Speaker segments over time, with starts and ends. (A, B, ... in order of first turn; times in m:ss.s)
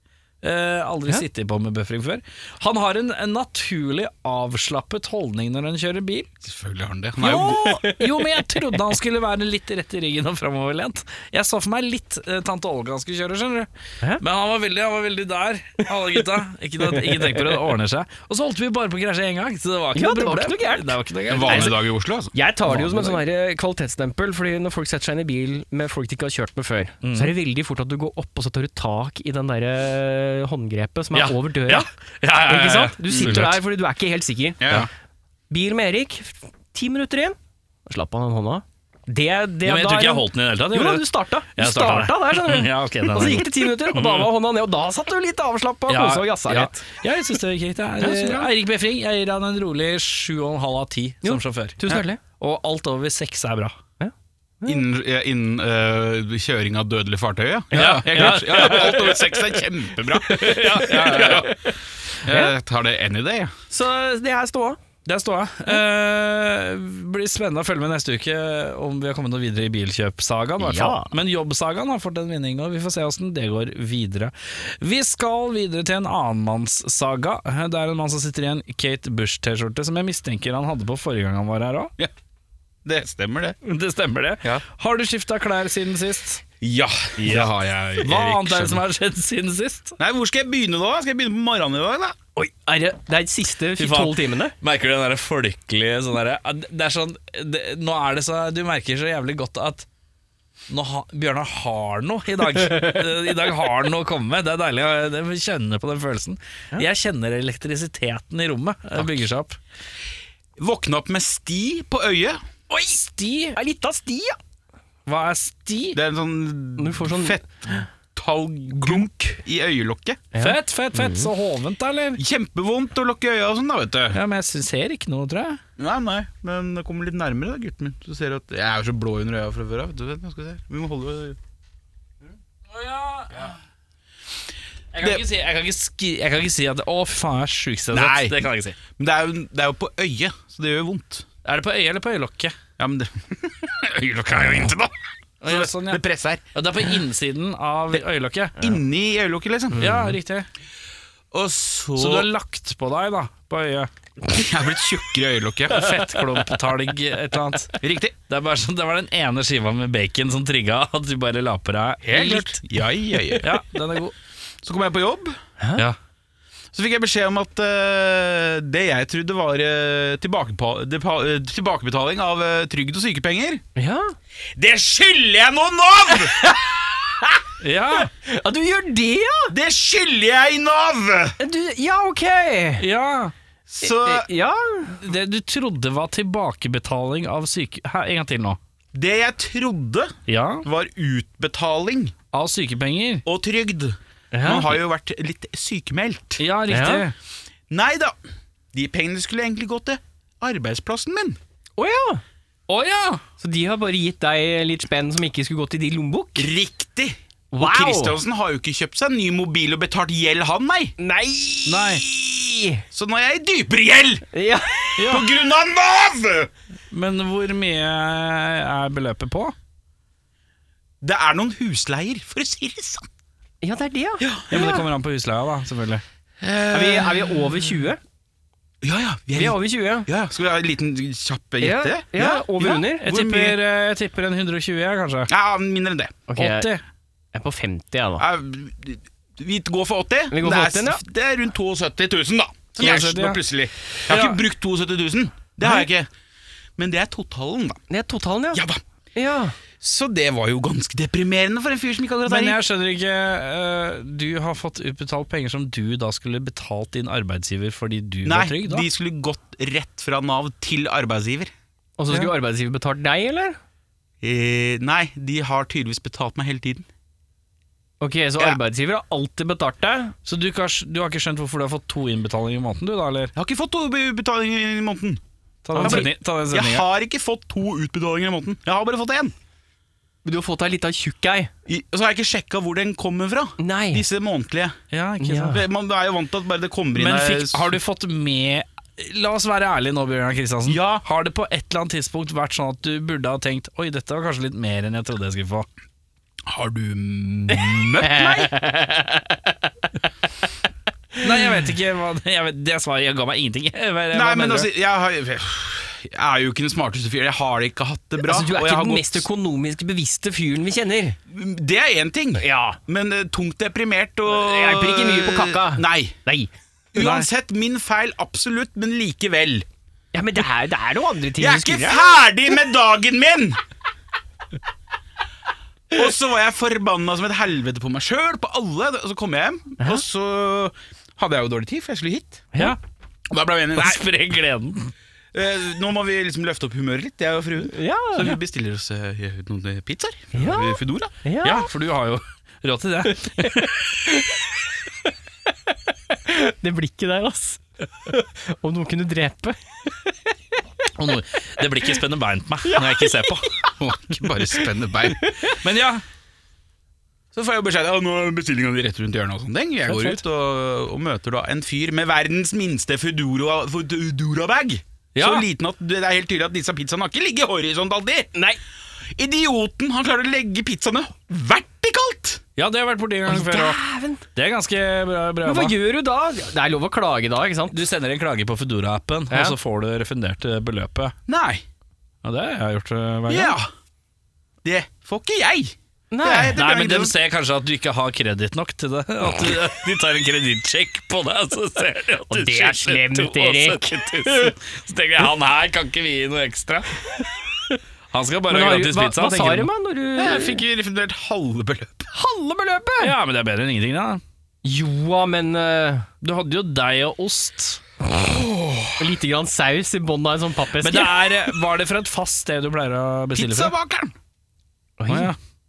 0:00.4-0:06.3 A
0:06.4-0:07.6 B
0:07.2-0:21.8 A
0:07.2-0:08.8 C
0:16.8-0:17.6 C
0:19.9-0:21.8 C
0:21.3-0:22.3 B
0:22.3-0:34.7 C
0:22.7-0:23.2 A
0:27.0-0:27.3 A
0:31.1-0:33.6 A
0:34.6-0:34.9 B
0:35.5-0:46.9 C
0:39.6-0:44.3 A
0:45.9-0:53.8 A
0:48.0-0:48.5 C
0:51.2-0:52.2 C
0:54.0-0:54.8 C
0:54.7-1:01.5 B
0:57.7-1:01.6 A
1:00.5-1:01.7 C
1:02.2-1:03.5 B
1:02.3-1:02.5 C
1:03.7-1:04.8 C
1:05.1-1:21.9 A
1:10.6-1:11.1 C
1:22.8-1:23.6 B
1:23.6-1:26.4 A
1:26.6-1:28.8 B
1:27.2-1:30.0 A
1:30.0-1:32.2 B
1:32.4-1:34.6 C
1:33.8-1:39.9 A
1:40.7-1:49.6 A
1:42.6-1:43.0 C
1:50.6-1:52.4 B
1:52.7-1:53.6 A
1:53.6-1:54.4 C
1:55.1-1:56.0 A
1:55.9-2:00.2 B
1:56.8-1:57.8 C
2:00.3-2:01.3 C
2:00.4-2:02.2 A
2:02.2-2:04.2 B
2:04.1-2:05.6 A
2:05.8-2:11.4 B
2:12.7-2:13.6 A
2:14.9-2:18.8 A
2:17.9-2:18.4 B
2:19.0-2:21.3 B
2:21.4-2:22.6 A
2:22.8-2:24.9 B
2:25.4-2:26.0 A
2:25.4-2:26.4 B
2:26.5-2:28.7 A
2:28.6-2:29.8 B
2:29.7-2:30.2 C
2:29.8-2:30.5 A
2:31.3-2:32.3 B
2:32.0-2:33.9 A
2:34.3-2:35.9 B
2:35.7-2:37.7 A
2:36.1-2:36.6 C
2:37.8-2:38.1 B
2:38.3-2:42.6 A
2:42.0-2:43.6 B
2:43.4-2:44.2 A
2:44.6-2:45.4 B
2:45.6-2:45.8 C
2:46.7-2:53.6 B
2:53.8-2:54.2 C
2:54.6-2:56.7 B
2:56.1-2:56.6 C
2:57.6-2:58.1 A
2:58.0-2:59.5 C
2:59.5-3:01.4 B
3:01.4-3:02.9 C
3:02.8-3:03.3 A
3:03.7-3:04.3 B
3:03.8-3:04.9 C
3:04.9-3:08.6 A
3:09.0-3:12.2 B
3:10.3-3:10.7 A
3:12.3-3:13.2 A
3:13.3-3:16.4 B
3:14.3-3:14.8 C
3:16.4-3:17.1 A
3:16.7-3:17.0 C
3:17.7-3:18.2 B
3:18.7-3:21.4 B
3:21.8-3:22.2 C
3:22.7-3:23.2 A
3:23.4-3:26.5 C
3:26.4-3:30.9 B
3:27.5-3:28.2 C
3:31.0-3:32.8 C
3:31.7-3:32.0 A
3:32.9-3:34.3 B
3:34.3-3:35.1 C
3:35.0-3:35.3 A
3:35.1-3:36.5 B
3:36.9-3:39.6 A
3:41.0-3:43.1 B
3:43.6-3:44.8 C
3:44.2-3:44.7 B
3:44.5-3:46.0 A
3:46.4-3:47.7 B
3:46.7-3:48.0 C
3:48.8-3:53.6 B
3:49.4-3:50.1 C
3:51.6-3:53.1 C
3:52.6-3:55.3 A
3:55.3-3:56.2 B
3:56.3-3:56.7 C
3:56.4-3:56.8 A
3:57.3-3:58.2 C
3:58.2-4:06.1 B
4:00.3-4:01.0 C
4:02.8-4:03.4 A
4:04.1-4:04.4 A
4:05.6-4:05.9 C
4:06.8-4:07.8 B
4:07.9-4:08.6 C
4:08.5-4:08.8 B
4:09.2-4:09.6 C
4:09.8-4:12.6 B
4:12.3-4:18.9 A
4:18.3-4:21.5 B
4:22.0-4:23.6 C
4:24.2-4:26.9 B
4:28.0-4:30.2 C
4:30.2-4:33.3 A
4:33.4-4:35.2 B
4:35.6-4:36.9 A
4:35.8-4:36.1 C
4:35.8-4:39.3 B
4:40.2-4:41.5 C
4:41.7-4:44.8 B
4:43.6-4:44.0 C
4:44.9-4:45.7 A
4:45.2-4:45.6 C
4:45.5-4:47.7 B
4:46.9-4:55.7 A
4:50.7-4:51.0 B
4:56.5-4:58.5 B
4:58.0-4:59.9 C
5:01.2-5:04.7 A
5:04.1-5:09.3 B
5:08.2-5:11.2 C
5:11.3-5:16.2 B
5:12.4-5:12.8 C
5:14.3-5:17.2 C
5:16.9-5:19.7 B
5:20.1-5:22.2 C
5:21.4-5:23.6 B
5:25.9-5:32.5 B
5:33.3-5:34.0 B
5:33.7-5:34.9 A
5:35.3-5:41.1 B
5:37.7-5:38.3 C
5:40.4-5:41.7 C
5:41.4-5:43.8 A
5:43.4-5:44.5 C
5:46.1-5:50.3 C
5:51.0-5:53.5 A
5:52.6-5:53.7 C
5:53.8-5:55.3 B
5:55.2-5:55.6 C
5:55.6-5:56.0 A
5:57.3-6:08.3 B
5:59.9-6:00.2 C
6:05.2-6:05.5 A
6:09.2-6:12.4 B
6:12.6-6:13.8 A
6:13.3-6:14.2 C
6:14.4-6:15.8 A
6:15.4-6:17.8 C
6:17.7-6:21.2 A
6:19.3-6:19.6 C
6:21.3-6:21.6 B
6:22.2-6:23.6 A
6:23.3-6:23.7 B
6:24.6-6:27.2 B
6:26.1-6:26.6 C
6:26.5-6:37.0 A
6:32.3-6:34.5 C
6:38.1-6:39.7 A
6:38.5-6:40.6 C
6:40.2-6:42.1 B
6:42.1-6:43.2 C
6:43.0-6:44.2 A
6:44.6-6:46.1 C
6:46.2-6:47.8 A
6:48.2-6:49.1 B
6:49.0-6:51.3 C
6:50.8-6:53.7 A
6:53.3-6:54.1 B
6:55.0-6:55.3 C
6:55.1-6:55.4 A